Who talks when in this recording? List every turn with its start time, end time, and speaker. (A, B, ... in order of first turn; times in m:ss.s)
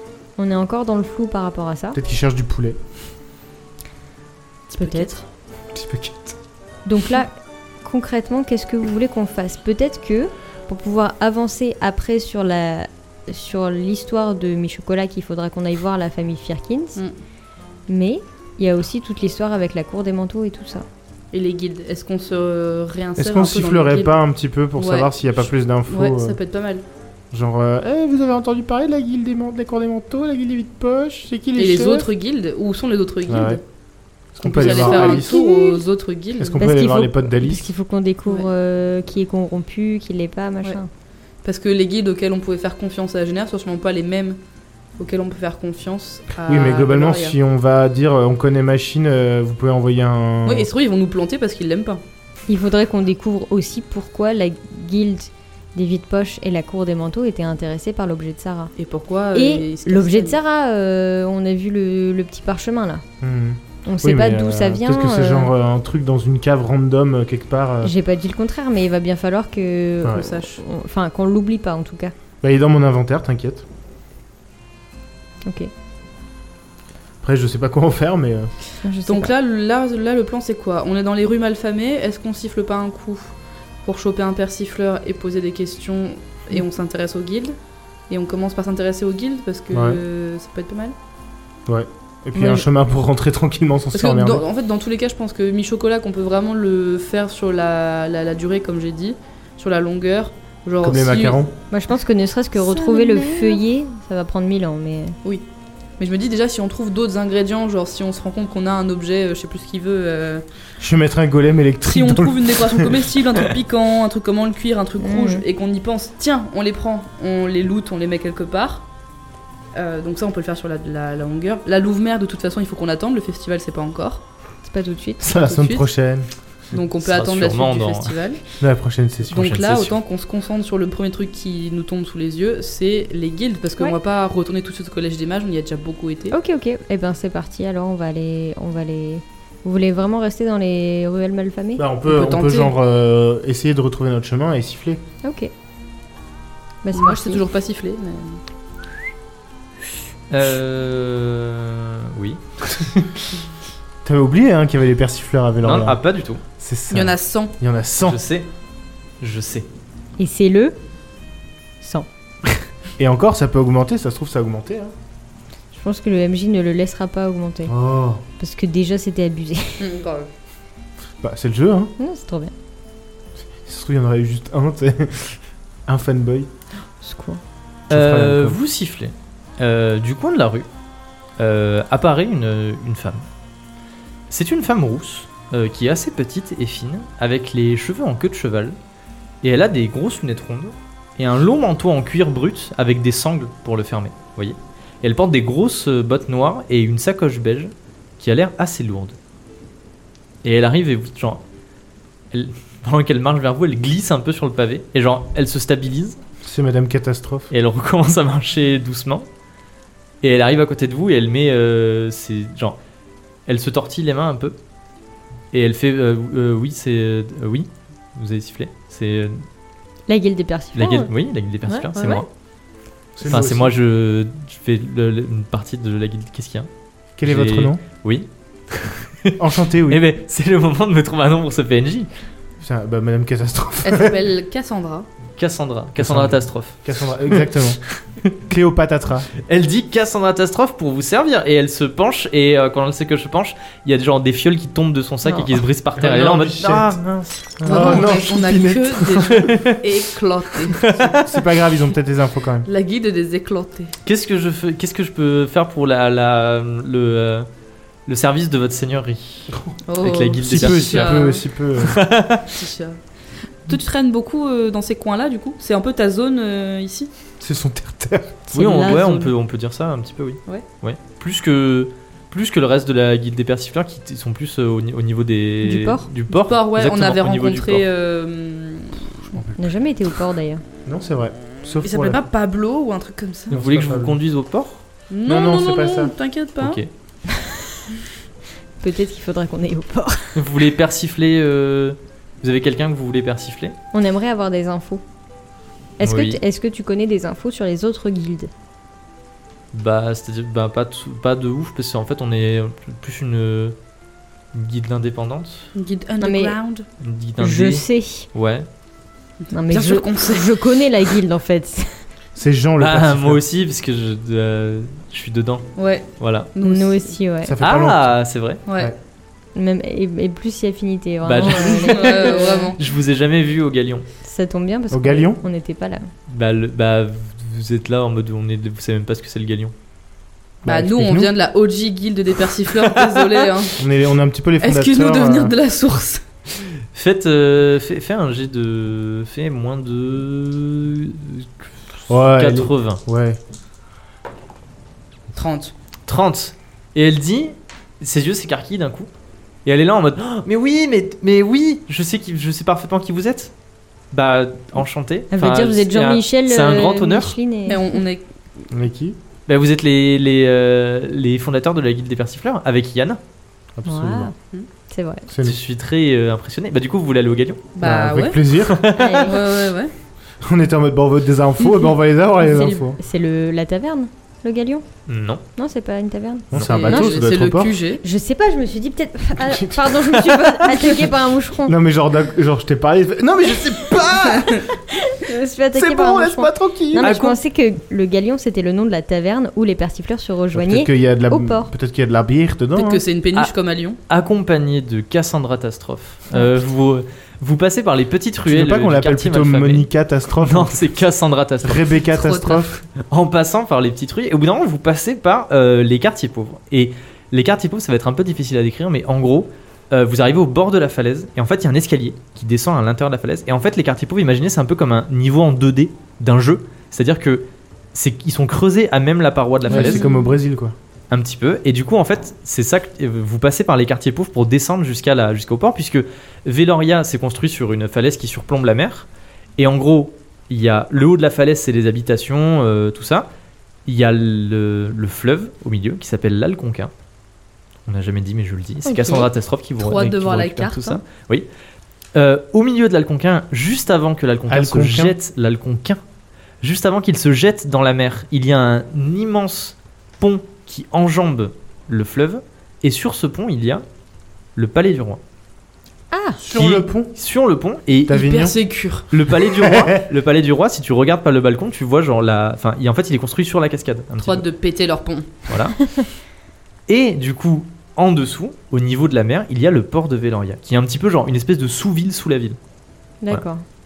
0:00.4-0:02.0 A
0:01.9-0:02.8 B
0:04.7-0:05.2 C
0:04.8-0:05.1 A
0:05.7-0:06.4 B
0:06.8-0:17.0 A
0:17.9-0:20.8 A
0:21.3-0:24.1 C
0:23.2-0:26.4 B
0:24.8-0:26.8 C
0:27.3-0:32.1 B
0:31.6-0:33.6 C
0:33.3-0:33.6 B
0:34.3-0:35.5 B
0:34.4-0:36.7 C
0:34.6-0:35.8 A
0:36.4-0:37.7 B
0:36.6-0:40.9 A
0:38.2-0:38.5 C
0:41.4-0:44.4 C
0:45.0-0:47.4 C
0:46.4-0:50.7 B
0:50.4-0:52.0 C
0:52.5-0:58.7 A
0:58.8-1:00.4 C
0:59.3-1:03.0 A
1:03.2-1:07.9 B
1:03.8-1:05.5 A
1:07.8-1:12.1 A
1:10.0-1:10.3 B
1:10.0-1:10.6 C
1:12.4-1:13.6 B
1:15.4-1:15.7 A
1:17.2-1:18.5 B
1:18.8-1:19.3 A
1:19.0-1:23.3 C
1:23.8-1:27.6 C
1:28.1-1:30.9 C
1:29.7-1:30.0 B
1:31.7-1:34.4 B
1:32.4-1:32.6 A
1:33.9-1:41.4 C
1:40.8-1:41.5 B
1:41.7-1:45.2 A
1:42.5-1:43.6 C
1:46.0-1:50.4 C
1:50.8-1:53.0 B
1:51.8-1:58.8 C
1:55.0-1:55.4 A
1:59.7-2:04.2 C
2:04.6-2:05.2 A
2:05.2-2:06.3 B
2:05.3-2:05.9 C
2:06.7-2:08.4 C
2:07.0-2:08.2 D
2:08.6-2:09.5 B
2:09.3-2:16.4 C
2:09.3-2:09.9 D
2:16.3-2:21.8 A
2:21.8-2:25.0 B
2:22.0-2:22.7 C
2:25.2-2:25.5 A
2:26.8-2:27.4 A
2:26.9-2:28.4 C
2:30.3-2:33.2 D
2:34.0-2:36.0 B
2:35.6-2:36.4 D
2:36.6-2:38.2 B
2:36.9-2:37.5 C
2:38.0-2:38.5 D
2:39.2-2:39.7 D
2:40.2-2:40.8 A
2:41.8-2:42.1 A
2:43.0-2:44.9 B
2:45.7-2:47.7 A
2:47.7-2:48.2 B
2:48.4-2:49.8 A
2:49.8-2:50.3 C
2:51.2-2:51.9 B
2:52.0-2:52.5 A
2:53.6-2:56.5 B
2:57.0-2:57.4 A
2:57.9-2:58.6 B
2:57.9-3:00.7 D
3:01.4-3:03.2 D
3:04.3-3:08.8 D
3:09.4-3:19.2 D
3:20.4-3:21.4 D
3:22.3-3:26.2 D
3:26.4-3:27.5 B
3:27.5-3:29.3 D
3:30.2-3:32.8 D
3:33.5-3:34.6 D
3:35.5-3:39.4 D
3:40.1-3:41.1 A
3:40.8-3:42.3 D
3:41.7-3:42.2 A
3:41.9-3:42.2 C
3:43.2-3:43.7 B
3:43.2-3:46.7 D
3:47.2-3:47.8 B
3:47.2-3:52.1 D
3:49.4-3:50.0 B
3:52.6-3:54.2 B
3:53.8-3:55.1 C
3:55.4-3:58.3 D
3:56.0-3:57.8 B
3:58.5-3:59.3 B
3:59.4-4:08.2 D
4:05.2-4:05.5 A
4:06.0-4:07.0 B
4:07.6-4:09.3 B
4:07.6-4:10.9 C
4:09.2-4:09.8 D
4:10.7-4:11.3 D
4:11.1-4:12.7 B
4:12.6-4:13.9 C
4:14.0-4:17.5 D
4:18.0-4:22.5 D
4:19.9-4:21.4 C
4:20.4-4:22.0 B
4:22.5-4:23.0 C
4:23.6-4:27.1 C
4:27.4-4:28.4 B
4:28.5-4:29.3 A
4:28.5-4:37.8 D
4:35.6-4:36.1 A
4:36.3-4:39.4 C
4:39.3-4:39.8 B
4:39.6-4:40.6 A
4:40.8-4:42.2 B
4:41.8-4:43.5 C
4:43.5-4:44.8 D
4:43.5-4:44.2 B
4:45.1-4:46.8 C
4:45.3-4:46.1 B
4:46.6-4:46.9 D
4:47.3-4:47.6 A
4:48.8-4:50.4 A
4:50.3-4:53.8 D
4:53.9-4:55.0 A
4:56.0-4:58.5 A
4:56.0-4:56.4 D
4:59.7-5:03.8 D
5:04.5-5:05.7 D
5:05.7-5:06.8 C
5:06.2-5:06.6 A
5:07.0-5:08.7 D
5:07.4-5:08.3 A
5:09.4-5:10.6 C
5:09.5-5:12.0 A
5:12.4-5:13.4 B
5:12.8-5:15.6 D
5:15.8-5:17.2 C
5:16.2-5:16.5 D
5:16.6-5:17.6 A
5:17.4-5:18.1 B
5:17.6-5:18.6 D
5:18.7-5:18.9 C
5:19.5-5:22.7 A
5:21.2-5:24.0 D
5:21.4-5:22.8 C
5:24.2-5:26.1 A
5:24.9-5:25.4 B
5:26.3-5:29.7 D
5:30.6-5:31.3 B
5:30.6-5:33.8 C
5:33.8-5:35.5 B
5:34.6-5:36.2 C
5:36.9-5:43.0 D
5:42.1-5:43.4 B
5:45.3-5:45.7 C
5:46.1-5:49.1 D
5:49.6-5:53.5 D
5:54.1-5:57.4 D
5:55.3-5:58.0 A
5:57.6-5:58.2 C
5:58.7-5:59.2 B
5:59.5-6:03.2 D
6:03.8-6:04.3 B
6:03.8-6:04.3 A
6:04.9-6:05.3 A
6:05.3-6:05.6 B
6:05.4-6:07.6 D
6:07.7-6:08.4 C
6:07.8-6:08.9 B
6:08.6-6:09.3 D
6:08.9-6:09.4 A
6:09.2-6:09.9 C
6:10.4-6:13.0 B
6:12.4-6:14.8 A
6:15.1-6:15.4 D
6:15.6-6:17.1 A
6:16.5-6:17.8 B
6:16.5-6:16.8 D
6:16.6-6:18.0 C
6:18.0-6:21.7 A
6:19.4-6:20.4 B
6:21.6-6:24.7 B
6:24.3-6:24.6 C
6:24.9-6:31.7 A
6:25.7-6:27.1 B
6:27.0-6:27.4 D
6:30.5-6:33.0 B
6:32.8-6:34.0 C
6:34.1-6:39.9 D
6:38.4-6:41.0 B
6:40.4-6:41.9 D
6:41.6-6:42.8 B
6:42.1-6:42.7 C
6:42.9-7:00.0 D
6:59.7-7:00.4 C
6:59.7-7:00.7 B
7:01.1-7:13.3 D
7:13.8-7:16.9 D
7:17.8-7:21.5 D
7:18.8-7:19.3 A
7:19.8-7:21.0 C
7:22.1-7:26.0 D
7:24.5-7:25.2 B
7:26.6-7:33.8 D
7:34.6-7:35.2 D
7:36.1-7:36.4 A
7:36.4-7:37.1 B
7:36.5-7:38.2 D
7:38.1-7:38.6 B
7:38.1-7:39.1 C
7:39.1-7:44.4 D
7:39.5-7:40.0 B
7:44.2-7:45.3 C
7:45.5-7:45.8 D
7:46.9-7:52.6 D
7:53.2-7:53.6 A